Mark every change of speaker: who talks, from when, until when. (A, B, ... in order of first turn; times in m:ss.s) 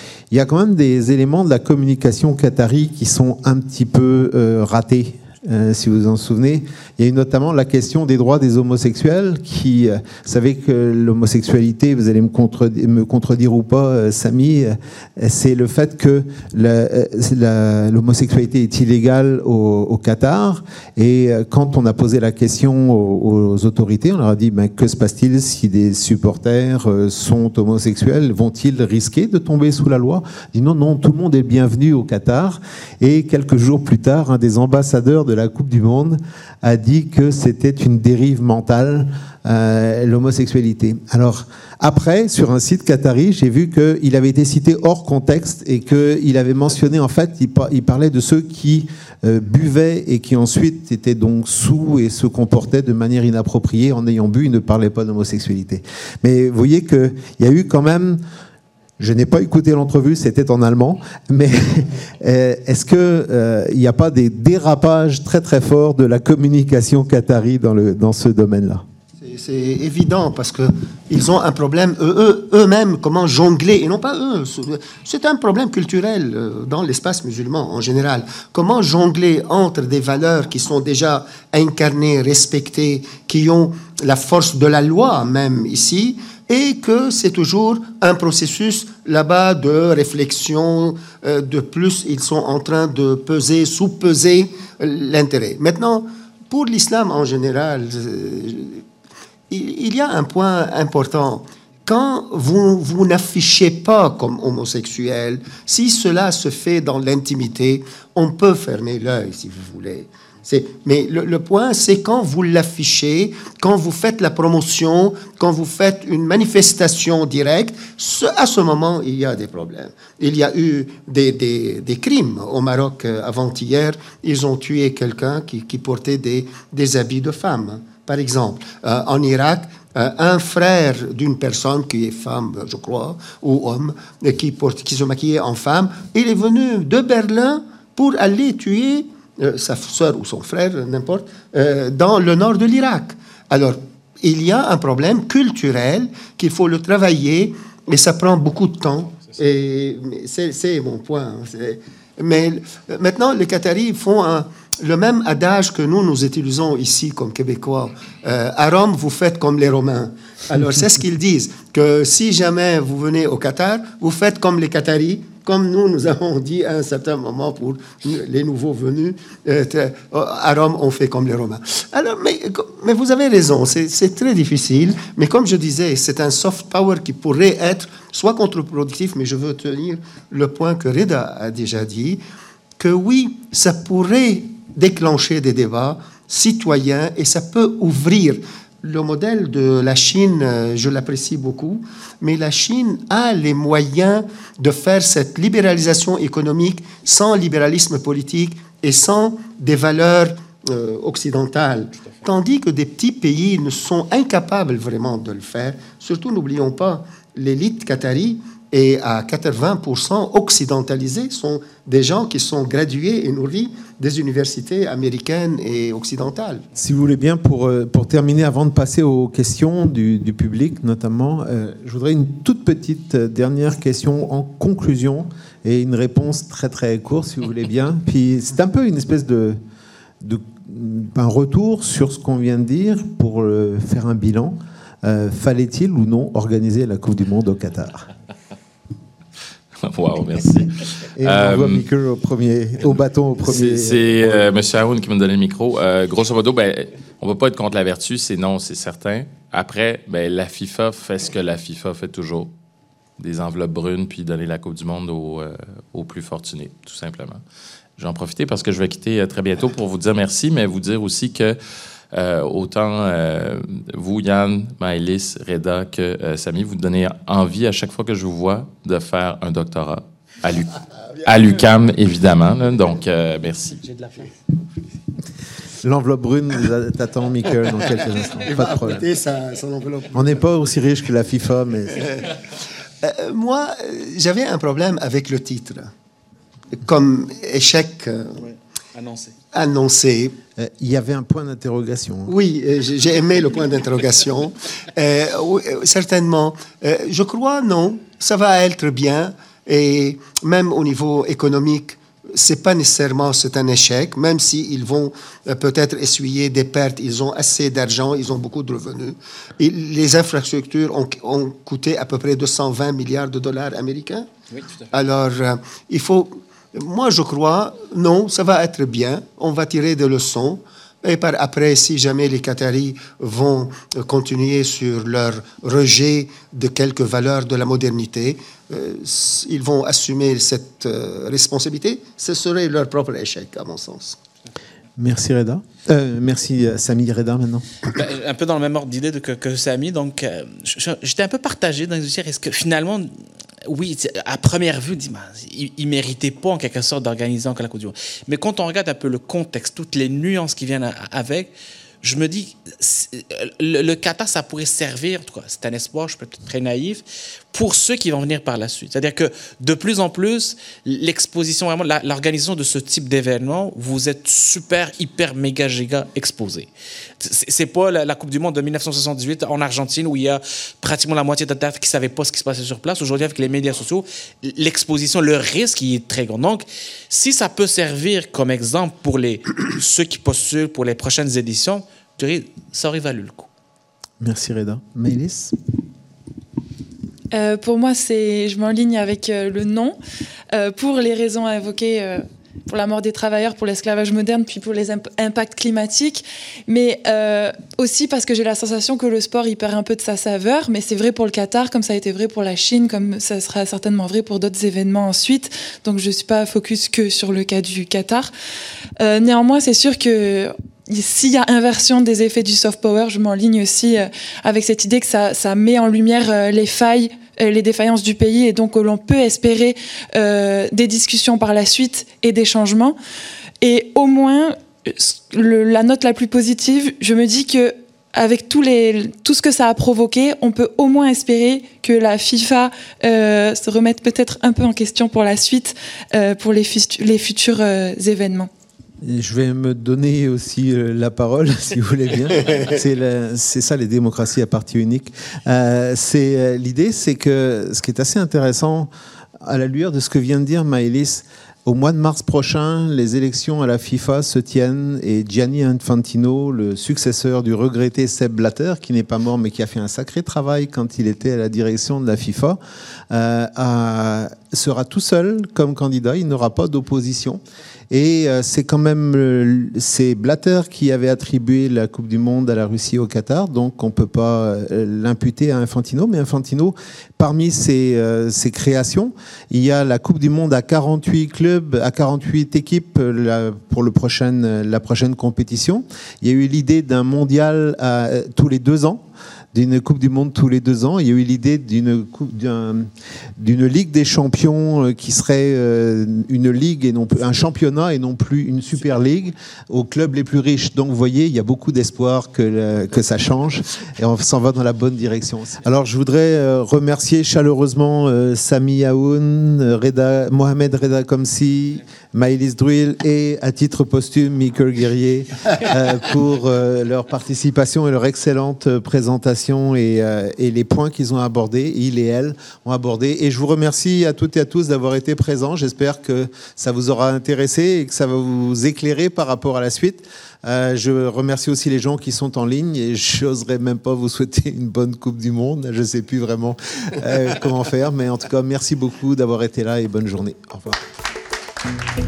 0:00.3-0:58.2 A
0:59.0-1:08.8 A
1:09.2-1:38.8 B
1:39.5-3:02.2 B
3:02.8-3:36.7 B
3:36.7-3:49.6 A
3:50.2-3:58.1 A
3:59.8-4:01.8 C
4:01.2-4:04.5 A
4:03.4-4:12.5 C
4:13.2-4:17.4 C
4:18.0-4:21.6 C
4:22.1-4:33.8 C
4:35.8-4:39.0 A
4:38.4-4:40.4 B
4:40.1-4:42.2 A
4:43.0-4:45.9 B
4:46.7-4:48.4 B
4:48.4-4:49.3 D
4:49.5-4:50.4 B
4:50.6-4:52.3 A
4:52.3-5:14.3 B
5:14.5-5:14.8 D
5:14.9-5:34.2 B
5:35.0-5:37.6 A
5:37.9-5:43.1 D
5:43.6-5:51.5 D
5:52.0-6:23.5 D
6:24.2-6:25.6 A
6:27.3-6:30.0 E
6:30.5-6:48.3 E
6:49.0-7:03.0 E
7:03.6-7:18.5 E
7:19.0-7:28.9 A
7:29.4-7:42.6 A
7:43.1-9:00.8 A